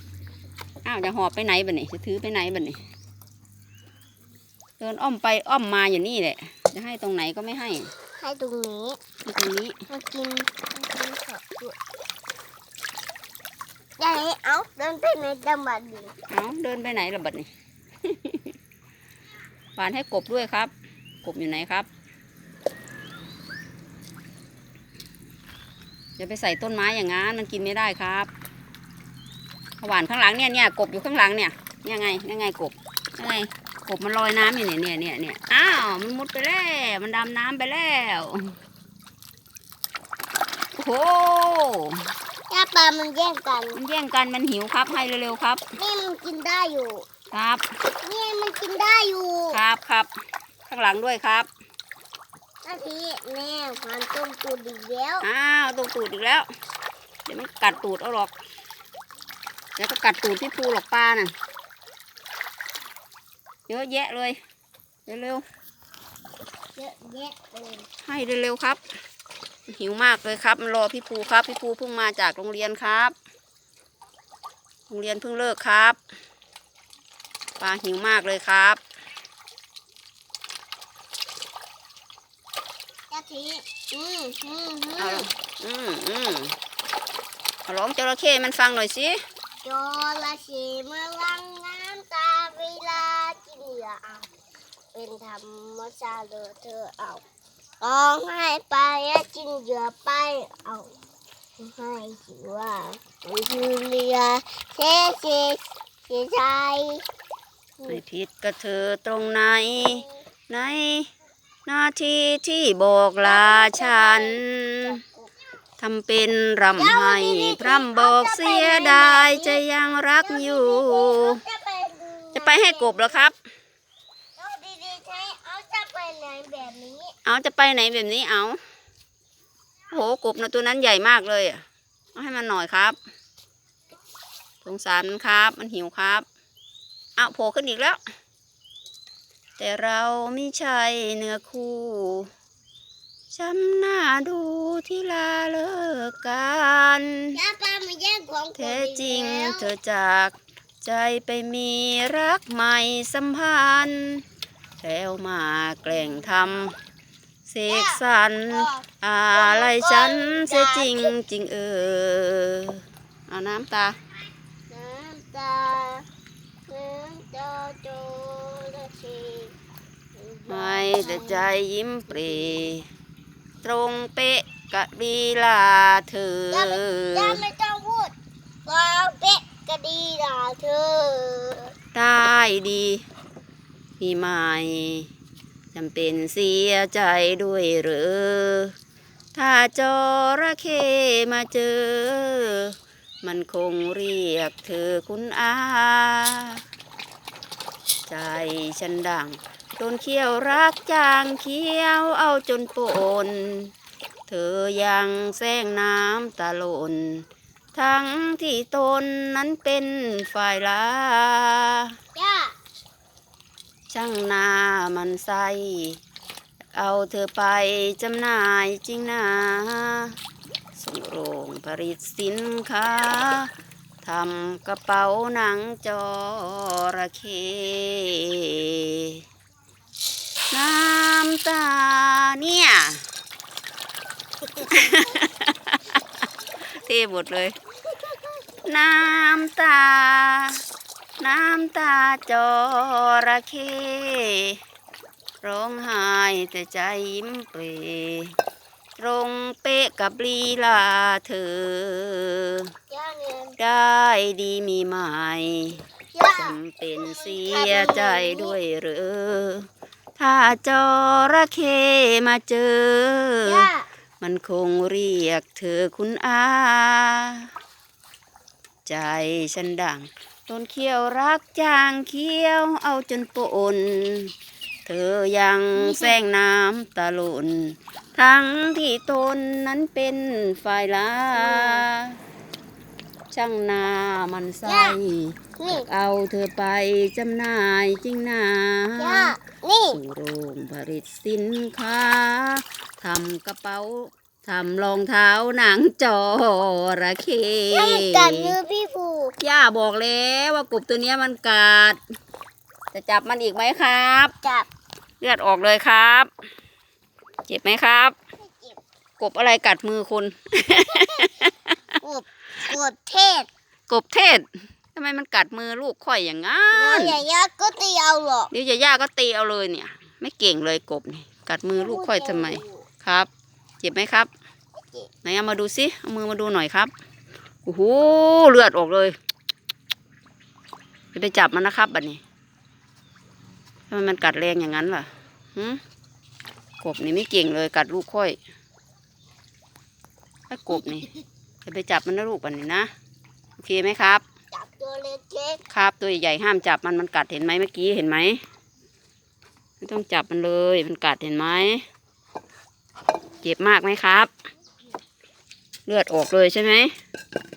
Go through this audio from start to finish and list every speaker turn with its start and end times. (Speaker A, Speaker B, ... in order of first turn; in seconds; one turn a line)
Speaker A: 0.8-2.8
Speaker A: 4.8-7.9
Speaker B: 8.2-9.0
Speaker A: 9.2-9.8
Speaker B: 9.9-11.8
Speaker B: 14.0-16.1
Speaker A: 16.3-17.5
Speaker A: 18.1-18.5
Speaker A: 19.8-20.7
Speaker A: 21.2-21.9
Speaker A: 26.2-28.3
Speaker A: 29.8-38.5
Speaker A: 40.8-42.1
Speaker B: 42.5-43.8
Speaker A: 43.7-45.6
Speaker B: 45.8-47.0
Speaker A: 47.3-47.6
Speaker B: 48.0-49.6
Speaker A: 49.5-50.1
Speaker A: 50.7-51.5
Speaker B: 52.6-55.3
Speaker A: 55.2-56.5
Speaker A: 57.3-58.3
Speaker A: 59.8-61.3
Speaker A: 63.7-64.4
Speaker A: 65.1-65.4
Speaker B: 66.8-67.9
Speaker A: 68.0-68.8
Speaker A: 69.7-73.1
Speaker A: 74.9-76.0
Speaker A: 77.6-78.8
Speaker B: 83.1-85.2
Speaker A: 85.0-86.5
Speaker A: 87.7-89.2
Speaker B: 89.6-94.3
Speaker B: 94.9-97.2
Speaker B: 97.8-100.9
Speaker B: 101.6-107.0
Speaker A: 107.9-111.1
Speaker B: 109.8-110.2
Speaker A: 111.7-114.9
Speaker B: 113.2-115.4
Speaker A: 115.8-121.4
Speaker B: 116.8-119.6
Speaker B: 120.2-123.3
Speaker A: 122.3-123.3
Speaker B: 124.4-127.1
Speaker A: 127.2-128.6
Speaker A: 129.9-131.6
Speaker A: 132.1-133.0
Speaker A: 134.6-136.2
Speaker A: 137.2-138.0
Speaker A: 139.6-142.3
Speaker A: 143.3-147.4
Speaker B: 147.3-149.7
Speaker A: 148.6-154.2
Speaker A: 154.8-156.7
Speaker A: 157.4-164.0
Speaker B: 157.7-161.1
Speaker B: 164.7-166.1
Speaker B: 166.7-169.5
Speaker B: 170.1-171.6
Speaker A: 170.5-172.9
Speaker B: 172.2-172.6
Speaker A: 173.6-177.4
Speaker B: 176.5-178.1
Speaker B: 178.7-181.7
Speaker A: 181.9-183.0
Speaker A: 184.0-185.1
Speaker A: 185.7-188.7
Speaker A: 189.3-196.6
Speaker A: 198.1-203.7
Speaker A: 204.3-211.9
Speaker B: 212.1-212.5
Speaker A: 213.9-216.0
Speaker A: 216.7-220.1
Speaker A: 220.8-223.5
Speaker A: 224.0-229.2
Speaker A: 230.5-233.0
Speaker A: 234.7-236.0
Speaker A: 236.8-237.6
Speaker A: 238.6-240.6
Speaker A: 241.2-244.6
Speaker A: 245.4-248.3
Speaker A: 248.9-252.7
Speaker B: 252.9-253.6
Speaker A: 253.6-263.6
Speaker B: 256.1-258.6
Speaker B: 263.4-263.9
Speaker A: 264.2-267.5
Speaker A: 268.9-274.3
Speaker A: 274.9-282.2
Speaker B: 275.8-276.2
Speaker B: 281.3-281.8
Speaker A: 283.3-289.3
Speaker B: 284.6-285.0
Speaker B: 285.6-285.9
Speaker B: 289.0-290.0
Speaker A: 289.9-298.5
Speaker B: 297.7-299.4
Speaker A: 299.4-302.0
Speaker A: 302.9-304.3
Speaker B: 304.4-304.7
Speaker A: 305.2-306.3
Speaker A: 307.5-308.1
Speaker B: 308.4-308.8
Speaker A: 309.2-311.7
Speaker B: 310.7-311.5
Speaker B: 312.0-313.5
Speaker A: 313.9-317.2
Speaker B: 316.7-318.5
Speaker A: 318.5-323.3
Speaker B: 321.7-322.8
Speaker A: 323.8-324.3
Speaker B: 324.8-325.1
Speaker A: 325.2-326.9
Speaker A: 327.6-329.1
Speaker A: 331.1-332.2
Speaker A: 333.9-335.8
Speaker A: 336.8-338.4
Speaker A: 340.5-341.1
Speaker B: 340.7-341.2
Speaker A: 341.6-342.9
Speaker A: 343.6-344.2
Speaker B: 344.5-345.6
Speaker A: 345.7-348.4
Speaker A: 349.8-351.8
Speaker A: 353.4-354.3
Speaker A: 355.9-356.9